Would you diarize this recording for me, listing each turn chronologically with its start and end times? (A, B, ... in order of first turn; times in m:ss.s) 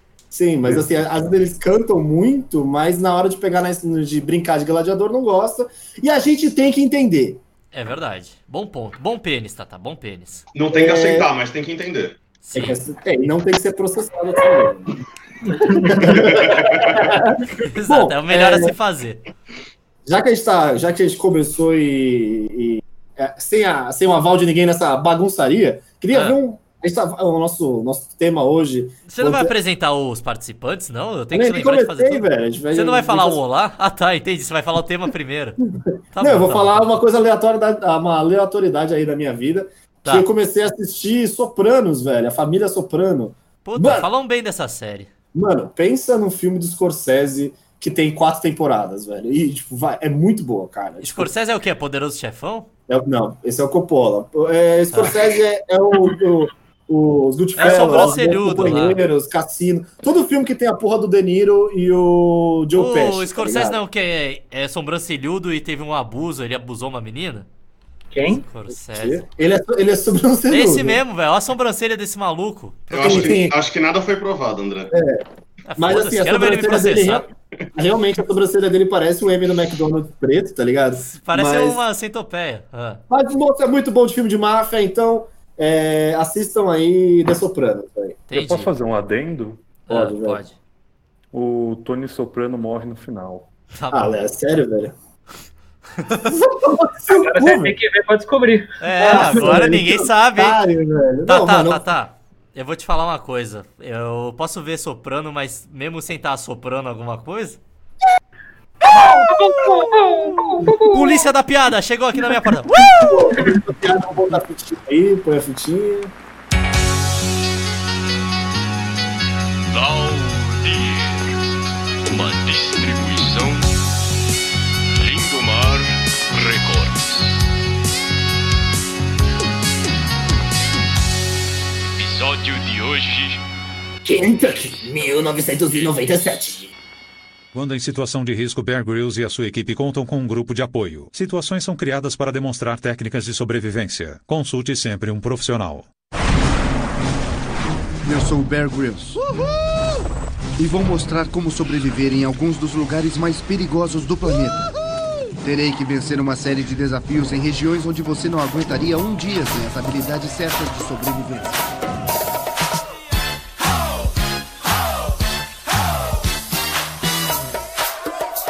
0:00.3-0:07.4 A
0:00.7-0:01.0 B
0:07.7-0:10.4 C
0:10.6-0:12.2 D
0:10.7-0:11.3 A
0:12.4-0:12.8 C
0:12.5-0:15.0 A
0:15.6-0:18.8 A
0:16.2-0:17.0 D
0:17.6-0:19.2 C
0:20.1-0:29.5 A
0:26.1-0:26.4 C
0:29.1-0:35.6 C
0:31.3-0:33.4 A
0:35.8-0:44.1 A
0:36.1-0:36.9 C
0:43.6-0:45.1 C
0:45.3-0:51.3 A
0:51.0-0:52.7 C
0:52.9-1:03.8 A
0:54.9-0:55.2 C
0:57.6-0:59.0 C
1:02.7-1:07.5 C
1:08.1-1:08.4 E
1:08.3-1:09.2 C
1:08.7-1:11.0 A
1:10.5-1:13.4 C
1:12.9-1:14.9 D
1:13.0-1:13.6 A
1:14.9-1:15.2 A
1:15.7-1:17.3 C
1:15.8-1:21.8 A
1:21.0-1:23.0 C
1:23.1-1:28.2 A
1:28.3-1:28.7 C
1:28.3-1:29.7 B
1:29.9-1:30.6 C
1:29.9-1:30.4 A
1:31.3-1:33.5 B
1:33.7-1:34.2 C
1:33.9-1:35.0 A
1:36.0-1:36.4 C
1:36.4-1:37.8 A
1:37.1-1:39.3 E
1:38.8-1:40.6 C
1:39.0-1:41.8 A
1:41.3-1:47.6 C
1:49.0-1:51.2 E
1:50.6-1:53.4 C
1:52.9-1:56.1 A
1:59.7-2:01.2 F
2:02.1-2:03.7 F
2:05.0-2:07.2 F
2:12.0-2:13.4 F
2:14.0-2:16.8 A
2:17.5-2:25.9 G
2:28.0-2:29.2 H
2:30.6-2:34.7 H
2:35.4-2:41.7 H